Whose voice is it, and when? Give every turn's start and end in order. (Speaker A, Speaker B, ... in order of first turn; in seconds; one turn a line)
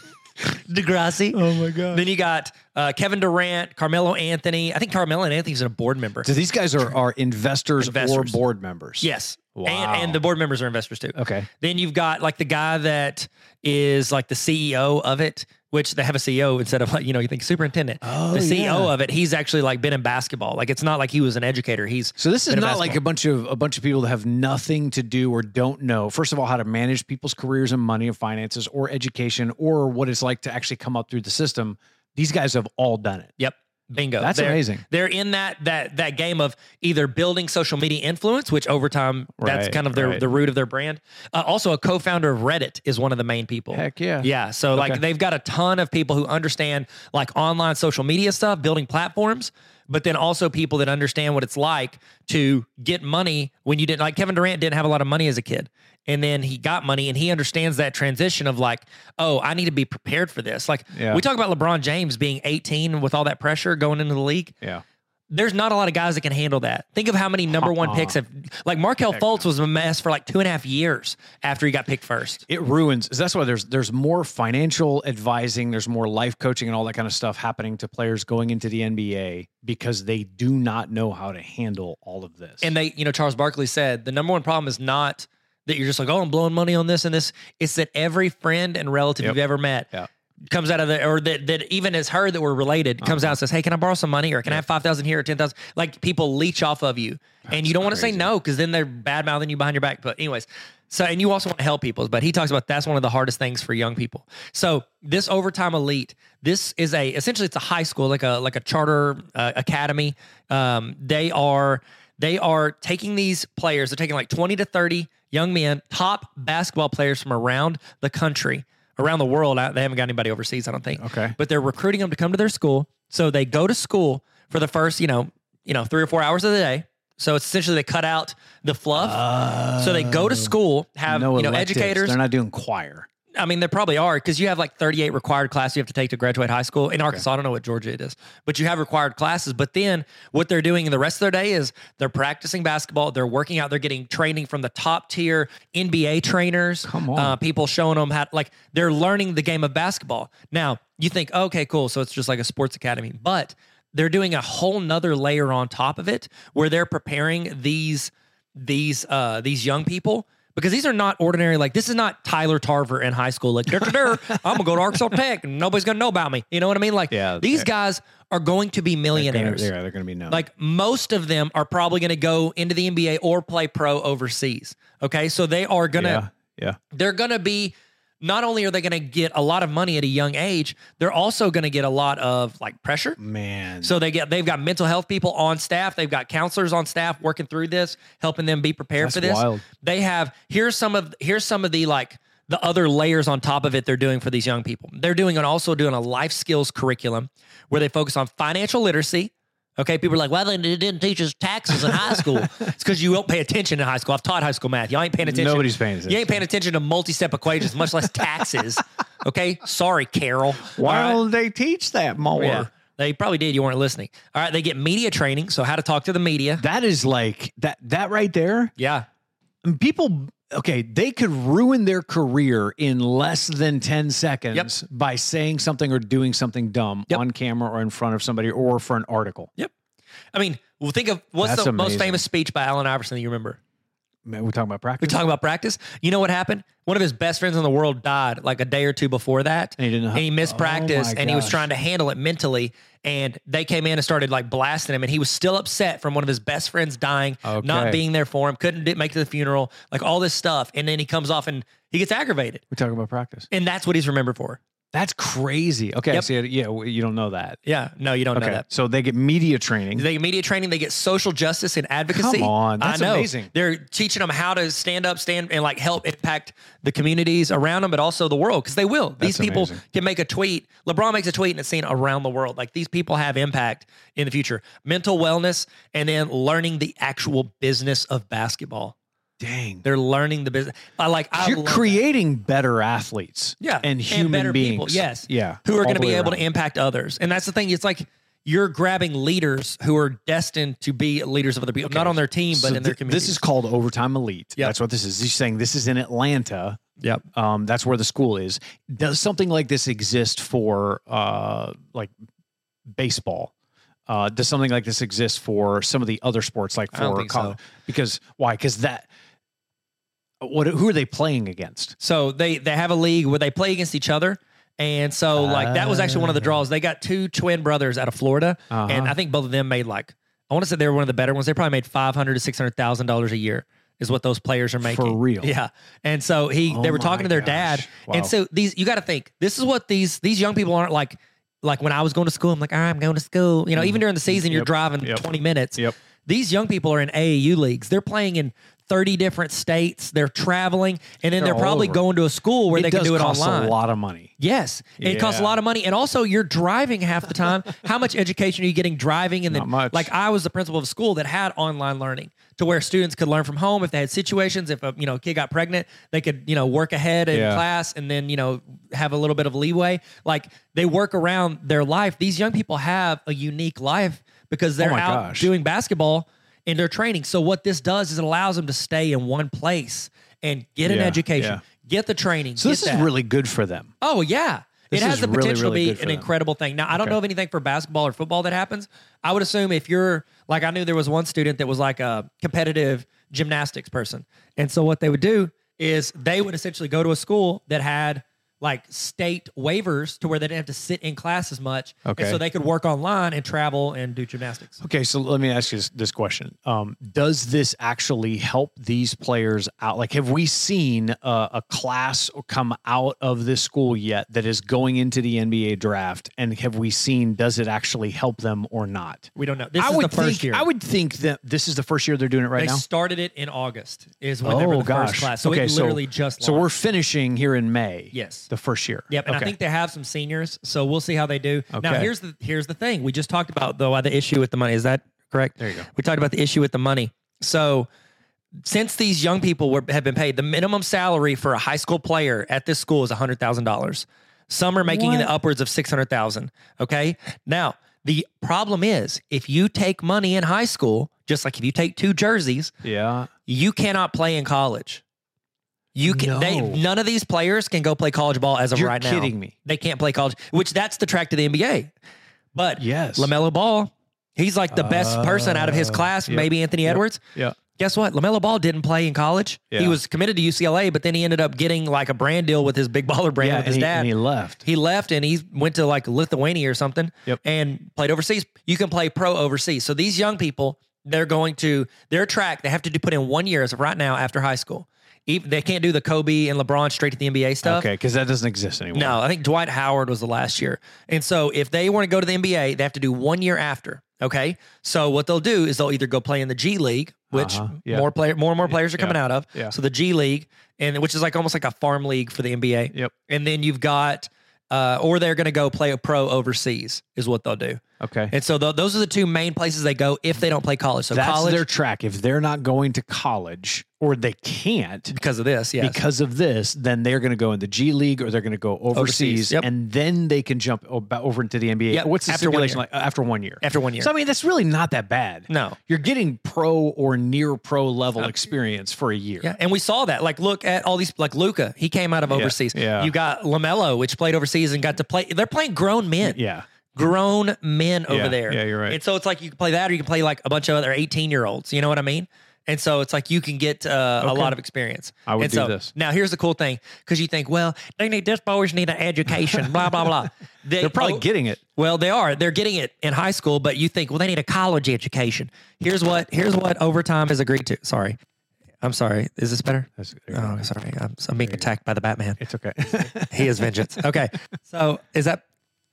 Speaker A: 0.5-6.3
Speaker B: 1.3-2.0
Speaker B: 6.2-10.2
Speaker A: 7.8-8.4
Speaker A: 9.0-23.0
Speaker B: 11.2-11.5
Speaker B: 18.0-18.9
Speaker B: 22.2-33.3
Speaker A: 33.4-64.5
Speaker B: 34.2-34.9
Speaker B: 39.4-40.3
Speaker B: 43.7-45.0
Speaker B: 60.9-61.2
Speaker A: 65.3-72.5
Speaker B: 67.5-68.2
Speaker B: 69.1-69.5
Speaker B: 72.5-82.7
Speaker A: 82.6-89.9
Speaker A: 90.5-132.2
Speaker B: 93.0-93.4
Speaker B: 97.5-98.3
Speaker B: 121.0-121.4
Speaker B: 129.0-130.6
Speaker B: 131.1-133.1
Speaker A: 133.4-169.7
Speaker B: 146.8-147.4
Speaker B: 163.8-164.6
Speaker B: 167.1-167.7
Speaker B: 169.1-170.4
Speaker A: 170.3-176.2
Speaker B: 175.9-176.8
Speaker A: 176.9-183.2
Speaker B: 183.2-183.9
Speaker A: 183.8-211.2
Speaker B: 189.0-189.7
Speaker B: 201.8-202.4
Speaker B: 205.2-206.4
Speaker B: 210.8-212.7
Speaker A: 212.4-216.6
Speaker B: 216.6-218.7
Speaker A: 218.8-219.1
Speaker B: 219.6-229.5
Speaker A: 230.3-233.6
Speaker B: 231.4-232.2
Speaker B: 234.2-235.2
Speaker A: 235.0-252.6
Speaker B: 239.8-241.7
Speaker B: 247.4-248.0
Speaker B: 252.7-253.5
Speaker A: 253.5-254.6
Speaker B: 254.9-257.6
Speaker A: 257.6-258.6
Speaker B: 258.3-260.1
Speaker A: 259.9-278.9
Speaker B: 262.1-263.5
Speaker B: 269.2-269.8
Speaker B: 279.4-279.9
Speaker A: 279.8-282.0
Speaker B: 281.4-286.4
Speaker A: 283.6-293.4
Speaker B: 291.9-296.8
Speaker B: 297.3-302.1
Speaker B: 302.9-303.5
Speaker B: 304.1-309.1
Speaker A: 306.9-307.6
Speaker B: 310.4-312.0
Speaker A: 312.0-343.8
Speaker B: 315.3-316.6
Speaker B: 318.7-319.2
Speaker B: 324.8-325.6
Speaker B: 326.7-328.3
Speaker B: 333.8-335.9
Speaker B: 341.4-342.0
Speaker B: 342.7-344.3
Speaker A: 344.4-373.1
Speaker B: 345.0-345.6
Speaker B: 349.5-350.1
Speaker B: 357.3-357.6
Speaker B: 364.8-365.5
Speaker B: 370.9-371.6
Speaker B: 372.6-373.9
Speaker A: 374.0-394.8
Speaker B: 374.9-376.3
Speaker B: 392.1-392.4
Speaker B: 394.8-412.8
Speaker A: 409.4-410.7
Speaker A: 412.6-416.7
Speaker B: 414.4-419.5
Speaker A: 418.1-418.5
Speaker A: 419.1-427.9
Speaker B: 421.7-422.1
Speaker B: 425.6-425.9
Speaker A: 428.6-442.7
Speaker B: 434.8-435.3
Speaker B: 442.8-443.3
Speaker A: 443.5-445.0
Speaker A: 445.9-451.9
Speaker B: 446.1-446.8
Speaker B: 448.8-449.5
Speaker A: 452.5-457.2
Speaker B: 452.8-453.3
Speaker B: 454.7-457.6
Speaker A: 457.7-464.1
Speaker B: 459.7-460.0
Speaker B: 463.4-464.7
Speaker A: 464.6-477.9
Speaker B: 477.6-479.2
Speaker A: 478.9-501.6
Speaker B: 487.3-488.1
Speaker B: 488.7-489.7
Speaker B: 498.0-498.3
Speaker B: 501.1-505.1
Speaker A: 505.1-506.0
Speaker B: 505.8-519.5
Speaker A: 508.9-509.7
Speaker A: 511.9-512.8
Speaker A: 513.6-514.1
Speaker A: 515.5-515.8
Speaker A: 519.4-526.4
Speaker B: 522.3-523.1
Speaker B: 526.2-526.7
Speaker A: 526.9-541.2
Speaker B: 528.1-529.0
Speaker B: 534.2-534.5
Speaker B: 535.3-535.9
Speaker B: 539.5-539.9
Speaker B: 540.8-541.6
Speaker A: 541.8-548.2
Speaker A: 548.8-555.4
Speaker B: 550.0-550.7
Speaker B: 552.4-553.7